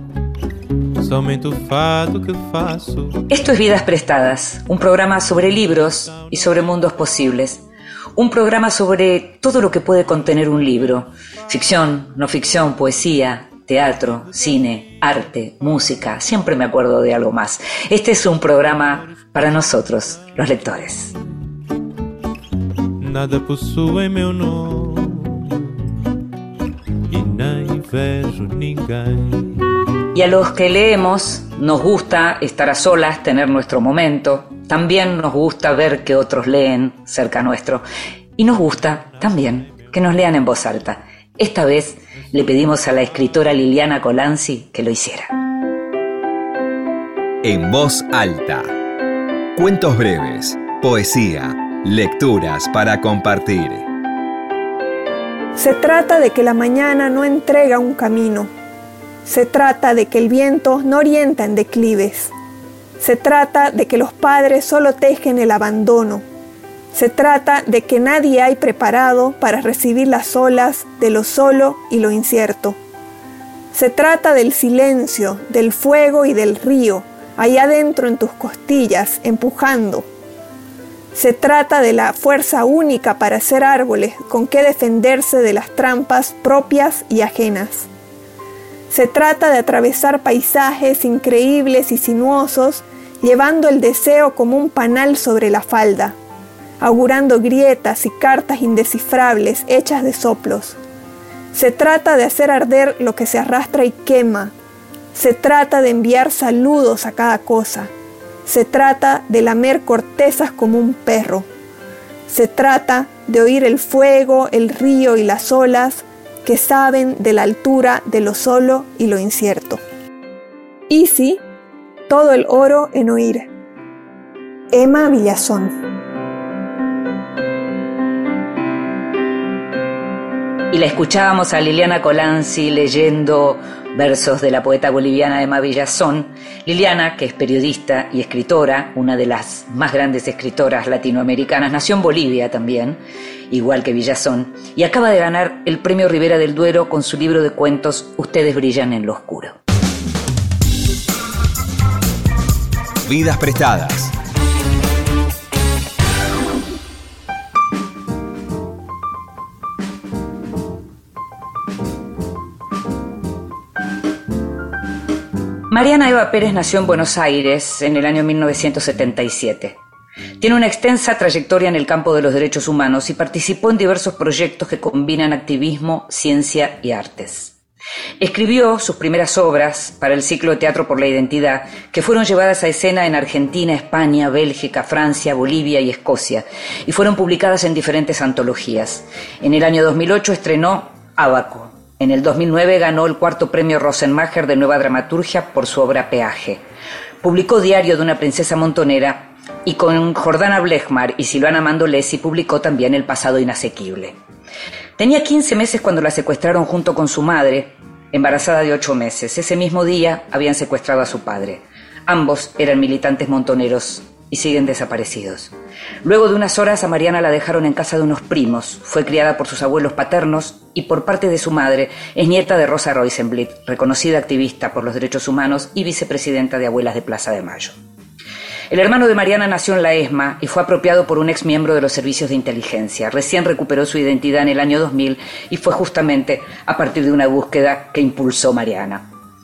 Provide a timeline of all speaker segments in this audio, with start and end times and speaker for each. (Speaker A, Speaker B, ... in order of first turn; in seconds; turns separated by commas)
Speaker A: 1.0-3.2, Speaker B: 3.3-7.6, Speaker B: 8.2-21.1, Speaker A: 23.0-25.7, Speaker A: 27.1-29.7, Speaker B: 30.1-37.8, Speaker B: 38.4-45.4, Speaker C: 47.4-48.7, Speaker C: 49.5-53.9, Speaker D: 55.6-58.5, Speaker D: 59.2-62.3, Speaker D: 63.0-66.2, Speaker D: 66.9-72.8, Speaker D: 73.7-80.1, Speaker D: 81.1-87.9, Speaker D: 88.9-96.2, Speaker D: 96.8-100.8, Speaker D: 101.5-104.5, Speaker D: 105.1-107.9, Speaker D: 108.5-111.5, Speaker D: 112.3-119.8, Speaker D: 120.9-121.4, Speaker D: 122.1-123.5, Speaker D: 124.7-125.8, Speaker B: 130.7-143.0, Speaker B: 143.5-149.6, Speaker C: 153.1-154.1, Speaker B: 165.7-169.8, Speaker B: 170.4-177.6, Speaker B: 178.2-196.6, Speaker B: 197.2-204.2, Speaker B: 205.0-215.5, Speaker B: 216.0-227.8, Speaker B: 228.7-239.1